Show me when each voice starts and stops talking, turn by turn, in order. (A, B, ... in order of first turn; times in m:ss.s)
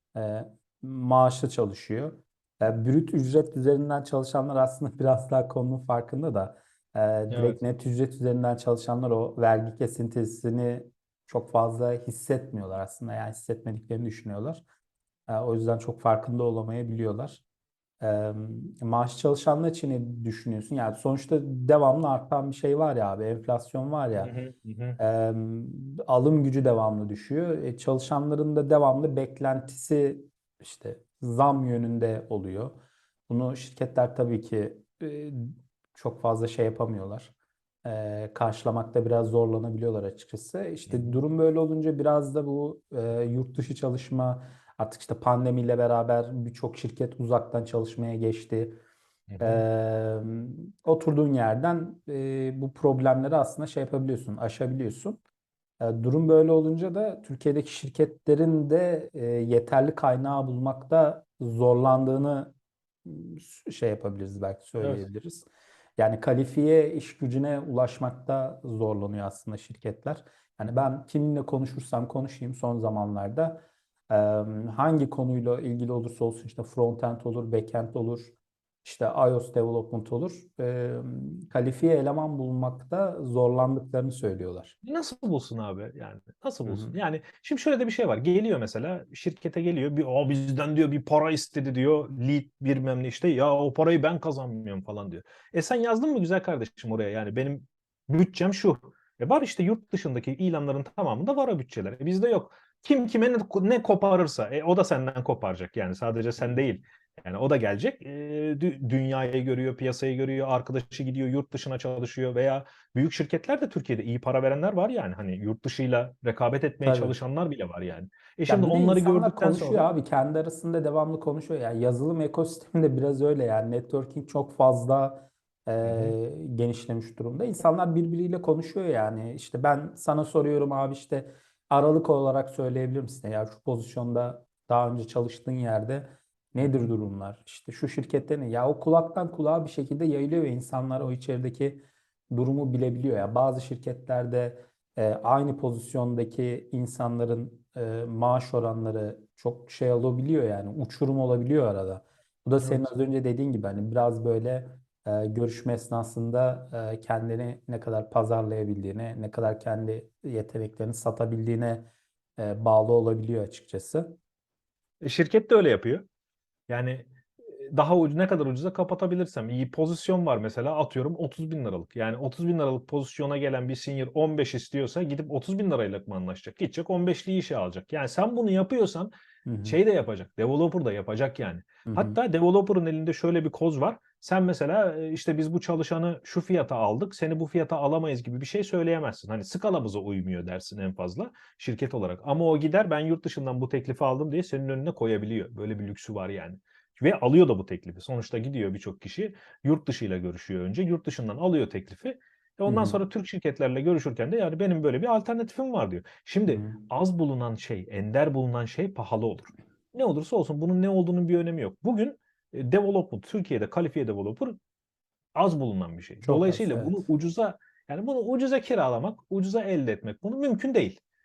0:00.1-0:14.6 A
0:07.3-0:07.6 B
0:15.3-0:17.4 A
0:18.0-0:24.3 A
0:24.2-0:25.0 B
0:25.0-0:32.8 A
0:33.3-0:37.3 A
0:37.8-0:48.8 A
0:40.9-0:41.2 B
0:49.3-0:49.6 B
0:49.4-0:55.2 A
0:55.8-1:24.8 A
1:04.8-1:05.1 B
1:24.8-1:59.8 B
1:26.6-1:26.9 A
1:56.8-1:57.2 A
1:58.5-2:44.2 A
2:05.8-2:06.1 B
2:16.6-2:16.9 B
2:32.6-2:33.0 B
2:45.0-2:46.0 B
2:46.7-2:47.1 B
2:47.7-2:59.1 B
2:59.4-2:59.8 A
2:59.6-3:34.6 B
3:01.9-3:02.2 A
3:22.7-3:23.0 A
3:26.5-3:26.9 A
3:35.4-3:41.0 B
3:36.2-3:37.0 A